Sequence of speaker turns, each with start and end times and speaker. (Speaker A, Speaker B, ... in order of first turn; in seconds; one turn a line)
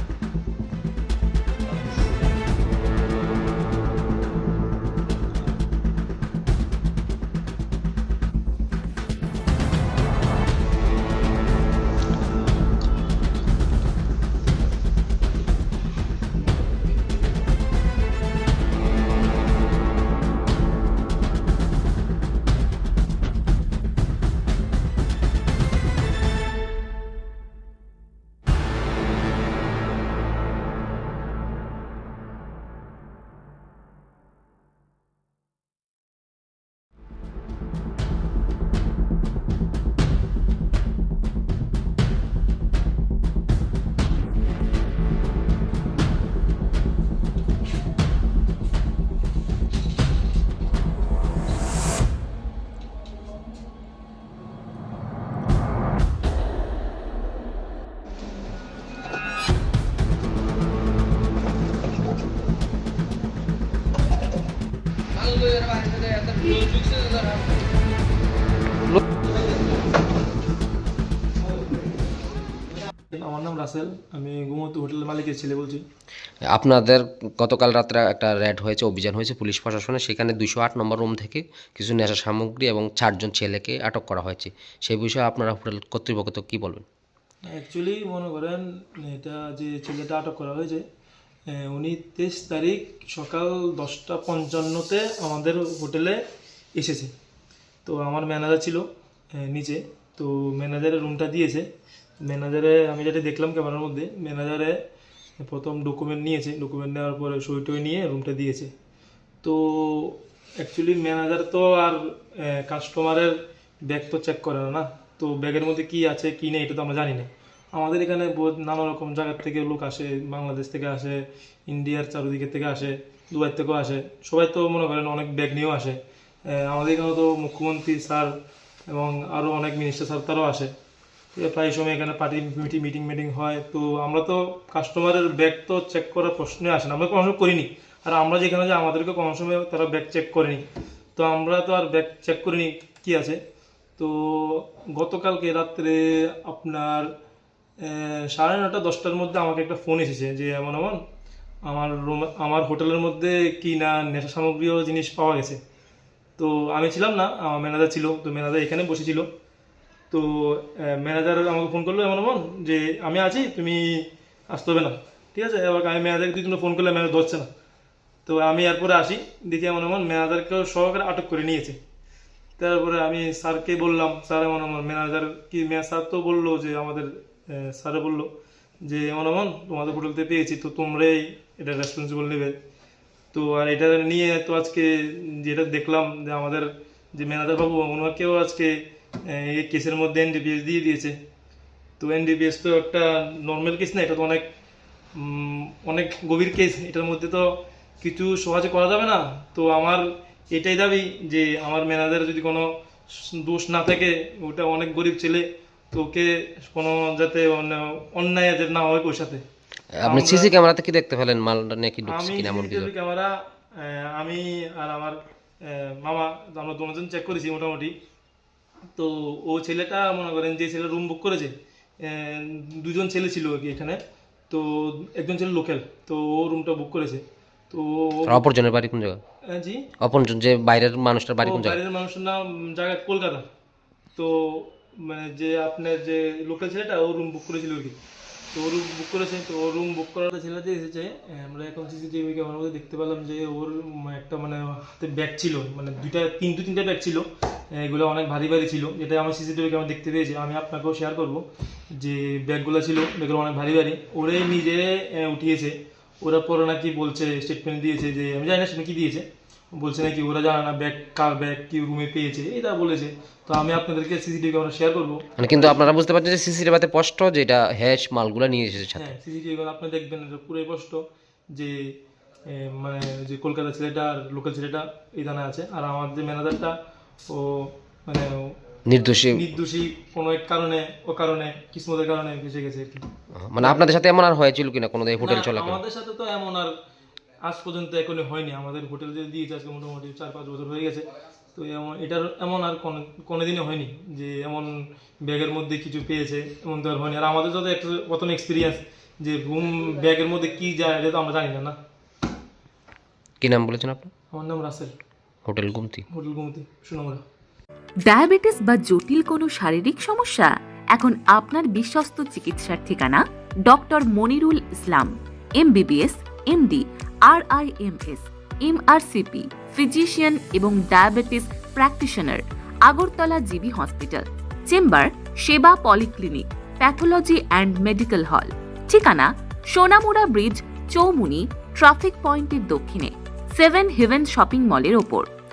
Speaker A: 1.7-2.0
Speaker A: 73.1-75.8
Speaker B: 76.5-86.8
Speaker A: 87.5-90.8
Speaker A: 91.5-96.2
Speaker A: 96.8-97.1
Speaker A: 97.8-101.7
Speaker A: 102.2-104.8
Speaker A: 105.4-108.7
Speaker A: 109.4-128.3
Speaker A: 128.9-130.7
Speaker A: 131.3-140.6
Speaker A: 141.2-143.4
Speaker A: 144.0-147.1
Speaker A: 147.8-151.0
Speaker A: 151.7-155.6
Speaker A: 156.4-159.3
Speaker A: 160.1-167.5
Speaker A: 168.2-171.8
Speaker A: 172.6-178.3
Speaker A: 178.8-182.6
Speaker A: 183.3-188.7
Speaker A: 189.3-191.2
Speaker A: 192.0-194.5
Speaker A: 195.2-197.5
Speaker A: 198.0-202.7
Speaker A: 203.3-209.4
Speaker B: 210.0-212.9
Speaker A: 210.1-210.5
Speaker A: 212.1-217.9
Speaker A: 218.9-228.5
Speaker B: 228.2-229.2
Speaker A: 229.5-229.8
Speaker B: 230.0-231.8
Speaker A: 231.4-233.4
Speaker A: 234.2-238.0
Speaker A: 238.5-251.4
Speaker A: 251.9-265.7
Speaker B: 265.4-269.1
Speaker A: 268.9-271.0
Speaker A: 272.5-276.7
Speaker A: 277.3-278.6
Speaker B: 278.9-279.4
Speaker A: 279.3-283.1
Speaker B: 283.3-285.8
Speaker A: 285.2-286.7
Speaker A: 287.4-301.8
Speaker B: 303.4-304.1
Speaker A: 304.3-304.9
Speaker B: 305.4-306.1
Speaker A: 306.1-307.2
Speaker C: 308.0-335.3